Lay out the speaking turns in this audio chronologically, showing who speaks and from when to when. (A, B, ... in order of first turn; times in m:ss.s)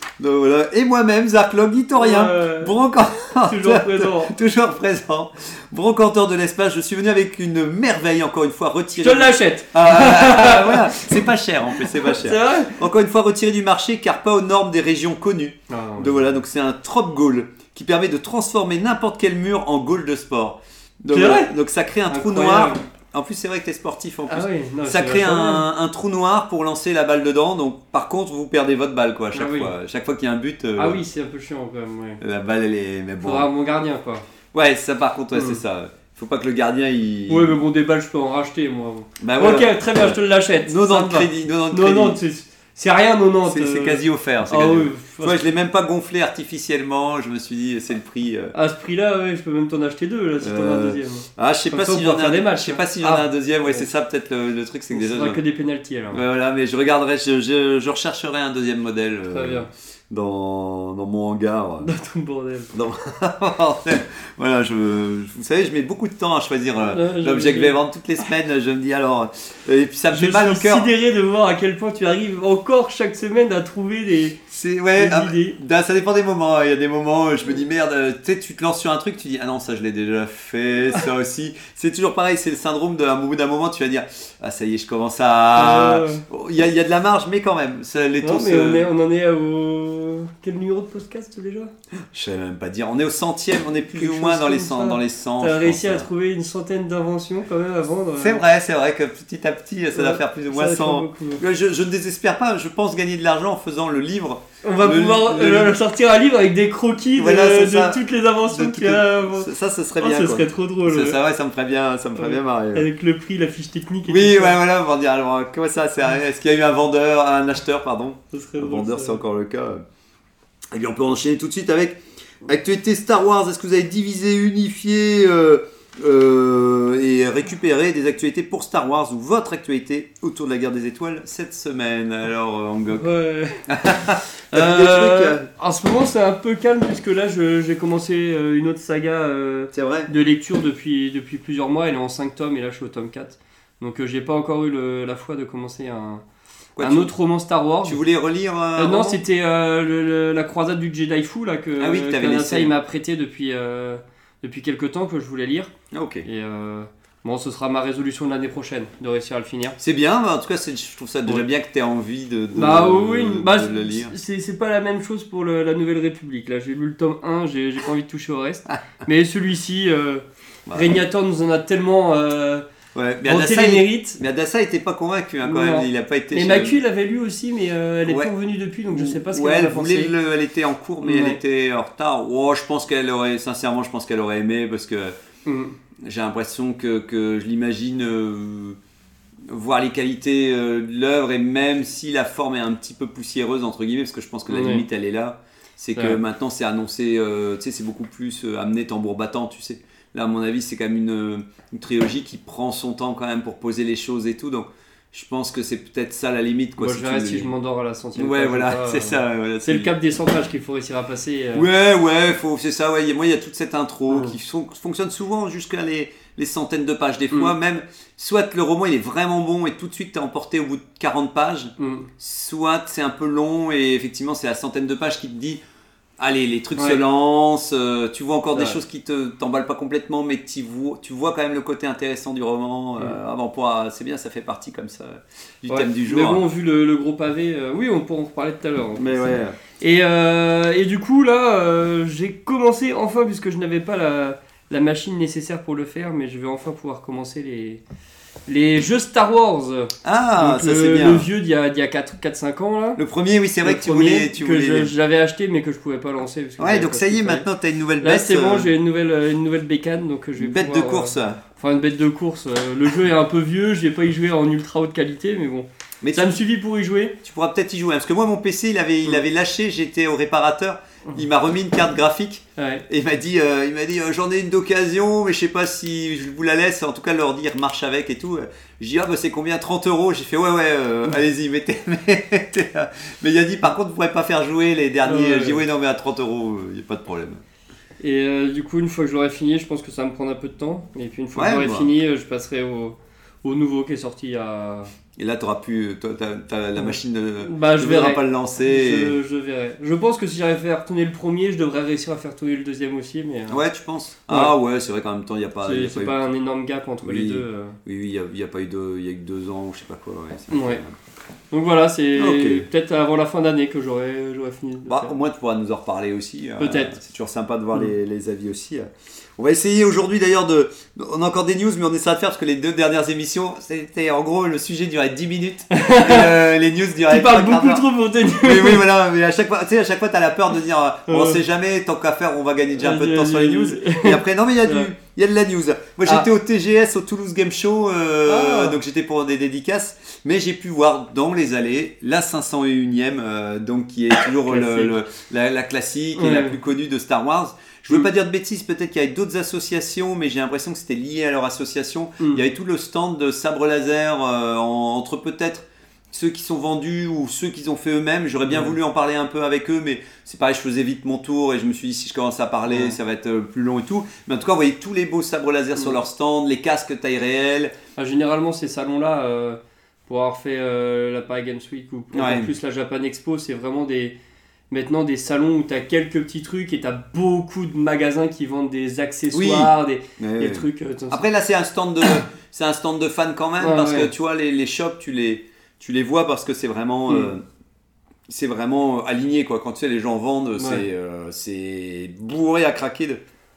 0:00.2-0:31.0 A
0:02.0-0:02.7 B
0:03.5-0:04.3 B
0:09.0-0:11.2 B
0:11.8-0:12.8 B
0:15.7-0:16.3 B
0:21.1-0:21.5 B
0:22.1-0:22.8 B
0:24.3-0:25.6 B
0:29.3-0:29.7 B
0:30.8-0:32.2 B
0:32.2-0:33.5 A
0:33.2-0:34.2 B
0:34.5-0:37.6 A
0:35.3-0:35.6 B
0:37.3-0:45.4 B
0:39.2-0:42.2 A
0:43.4-0:48.5 A
0:48.5-0:53.9 B
0:50.4-0:55.4 A
0:54.9-0:56.2 B
0:56.1-1:01.9 A
0:59.3-0:59.7 B
1:01.8-1:02.7 B
1:02.7-1:10.9 A
1:06.8-1:07.8 B
1:10.1-1:14.4 B
1:14.5-1:28.9 A
1:15.0-1:15.6 B
1:25.6-1:26.2 B
1:28.2-1:31.7 B
1:32.1-1:36.1 A
1:34.0-1:38.4 B
1:38.2-1:45.8 A
1:39.9-1:41.4 B
1:44.6-1:51.2 B
1:47.2-1:52.8 A
1:52.2-1:54.6 B
1:54.1-1:59.8 A
1:58.3-1:59.2 B
2:00.7-2:13.1 A
2:12.9-2:13.7 B
2:13.7-2:15.5 A
2:14.5-2:26.2 B
2:19.7-2:20.1 A
2:26.8-2:27.1 A
2:26.8-2:28.0 B
2:27.8-2:29.2 A
2:28.8-2:35.7 B
2:31.8-2:32.7 A
2:35.9-2:36.2 A
2:36.2-2:39.8 B
2:39.8-2:44.1 A
2:42.5-2:52.6 B
2:50.7-2:50.9 A
2:52.9-2:56.8 A
2:53.2-2:54.2 B
2:55.4-3:00.1 B
2:58.1-2:58.3 A
2:58.9-3:05.2 A
3:01.0-3:01.4 B
3:05.4-3:05.8 B
3:06.0-3:08.8 A
3:09.5-3:27.5 A
3:14.5-3:14.8 B
3:26.8-3:31.7 B
3:28.2-3:29.9 A
3:31.5-3:45.6 A
3:34.1-3:34.3 B
3:41.8-3:42.1 B
3:46.2-3:56.4 A
3:55.7-4:07.8 B
3:59.0-3:59.6 A
4:08.5-4:13.0 B
4:10.0-4:11.3 A
4:13.0-4:14.9 A
4:13.6-4:17.4 B
4:16.6-4:18.7 A
4:18.0-4:27.2 B
4:20.4-4:21.4 A
4:26.0-4:26.3 A
4:27.2-4:47.4 A
4:32.6-4:32.8 B
4:45.0-4:45.6 B
4:48.0-4:54.9 B
4:51.3-4:51.9 A
4:55.2-4:59.2 A
4:56.8-5:03.6 B
5:03.5-5:06.2 A
5:05.6-5:07.8 B
5:07.0-5:11.0 A
5:10.5-5:10.8 B
5:11.5-5:15.1 B
5:12.2-5:12.7 A
5:14.8-6:07.7 A
5:16.6-5:16.9 B
5:25.7-5:26.4 B
5:27.1-5:28.8 B
5:31.1-5:31.4 B
5:32.8-5:34.9 B
5:38.2-5:38.8 B
5:44.4-5:45.0 B
5:46.2-5:46.6 B
5:58.5-5:58.8 B
6:02.7-6:03.0 B
6:08.0-6:14.2 B
6:12.1-6:12.5 A
6:14.7-6:21.2 B
6:19.3-6:27.4 A
6:23.6-6:24.1 B
6:28.3-6:33.2 A
6:30.6-6:30.8 B